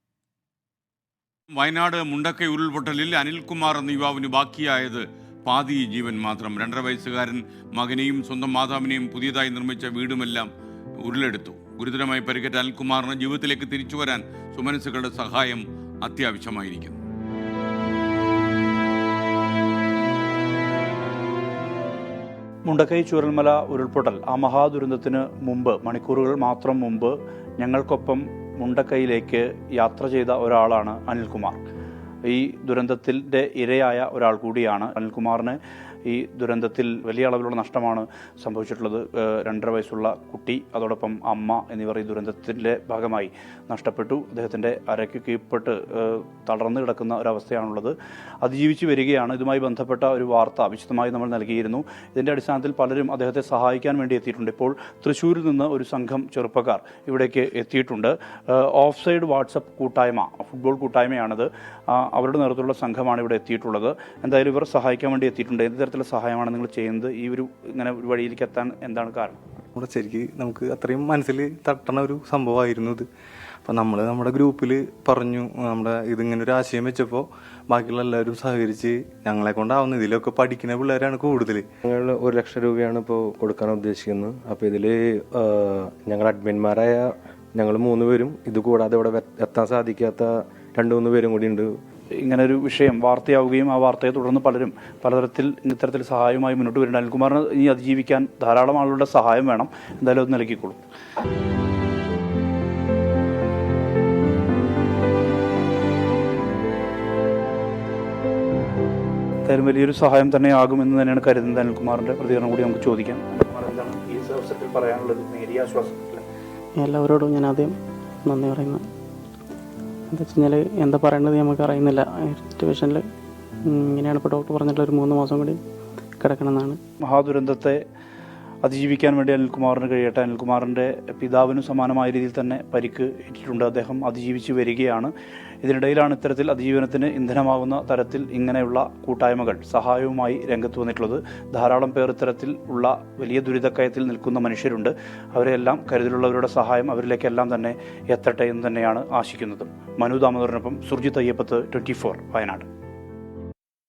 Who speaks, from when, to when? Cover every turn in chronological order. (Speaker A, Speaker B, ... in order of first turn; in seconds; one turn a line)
Speaker A: 1.6-10.5
Speaker A: 11.0-17.0
Speaker B: 22.6-31.6
Speaker B: 32.2-69.4
Speaker C: 69.8-73.1
Speaker C: 73.6-81.6
Speaker D: 81.8-91.7
Speaker B: 92.2-100.8
Speaker B: 109.5-116.2
Speaker E: 116.8-117.7
Speaker E: 118.2-118.8
Speaker E: 120.1-123.0
Speaker E: 123.7-125.6
Speaker E: 126.2-126.8
Speaker B: 127.0-127.8
Speaker B: 128.6-135.1
Speaker B: 135.6-152.7